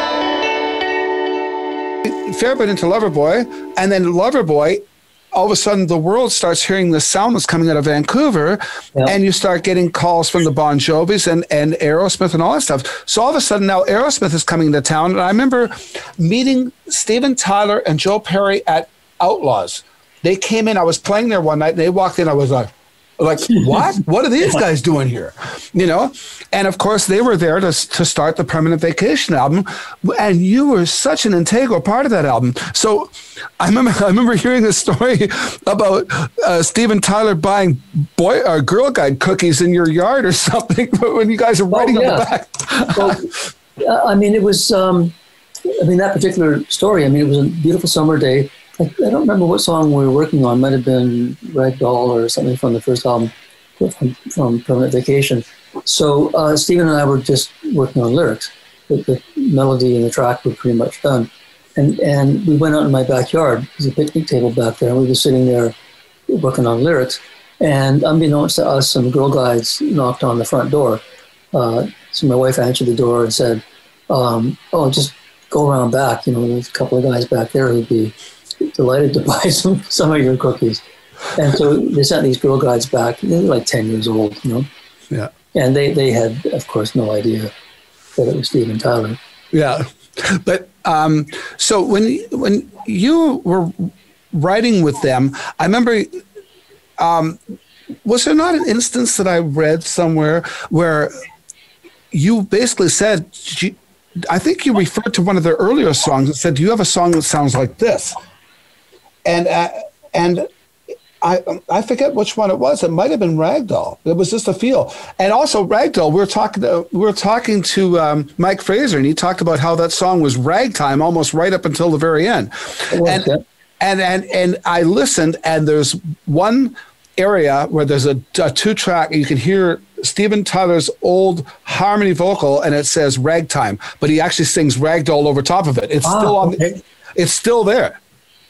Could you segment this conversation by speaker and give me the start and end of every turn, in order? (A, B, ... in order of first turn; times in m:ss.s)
0:02.0-0:04.8 A
0:05.3-0:43.2 A
0:41.7-0:42.3 B
0:42.9-0:45.2 B
0:45.7-1:05.8 B
1:06.3-1:24.7 B
1:25.5-1:27.5 B
1:28.2-1:29.2 B
1:29.5-1:36.2 A
1:37.0-1:37.4 A
1:38.0-1:41.1 A
1:42.1-1:43.8 A
1:44.3-1:48.2 A
1:49.2-1:50.5 A
1:51.2-2:03.3 A
2:02.9-2:03.4 B
2:03.8-2:16.6 A
2:16.0-2:16.8 B
2:17.2-2:18.0 A